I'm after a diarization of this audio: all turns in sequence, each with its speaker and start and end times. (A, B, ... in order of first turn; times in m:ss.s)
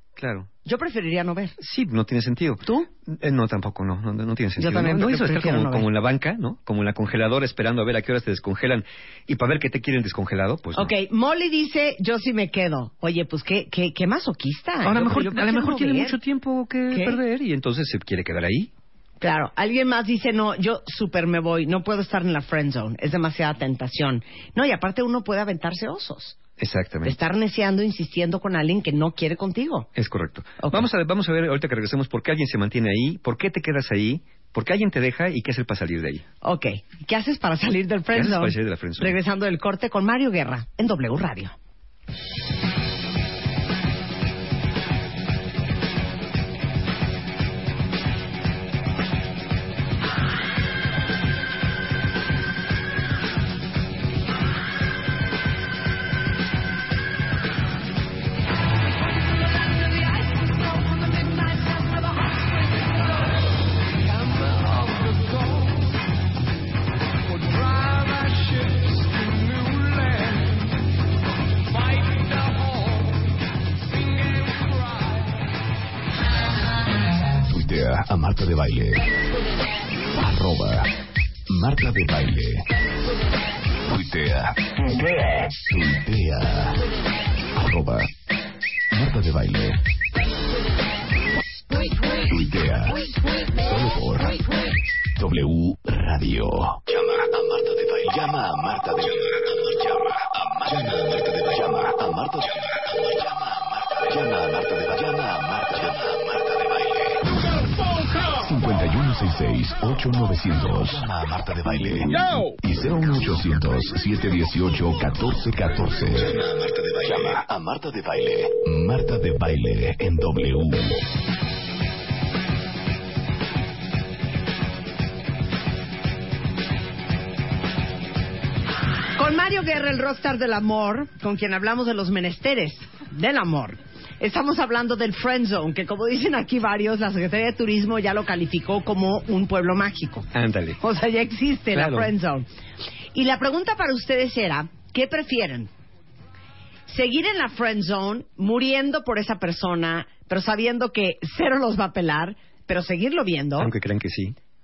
0:00.2-0:00.5 A
0:00.6-0:01.6 B
0:01.6-0:10.9 A
0:04.6-0:05.9 B
0:10.7-0:16.2 B
0:14.8-0:18.7 A
0:16.9-0:17.2 B
0:19.2-0:26.4 B
0:26.6-0:27.2 A
0:27.0-0:29.9 B
0:30.0-0:36.2 A
0:30.6-0:30.9 B
0:36.4-0:41.5 B
0:38.1-0:39.2 A
1:17.4-1:19.2 C
1:20.1-1:20.9 C
1:21.5-1:22.7 C
1:23.8-1:26.8 C
1:27.5-1:28.1 C
1:28.9-1:29.8 C
1:32.2-2:01.0 C
2:09.2-2:20.3 B
2:20.3-2:20.8 A
2:20.8-2:22.5 B
2:21.7-2:22.1 A
2:23.1-2:25.7 B
2:26.9-2:33.7 B
2:33.6-2:34.4 A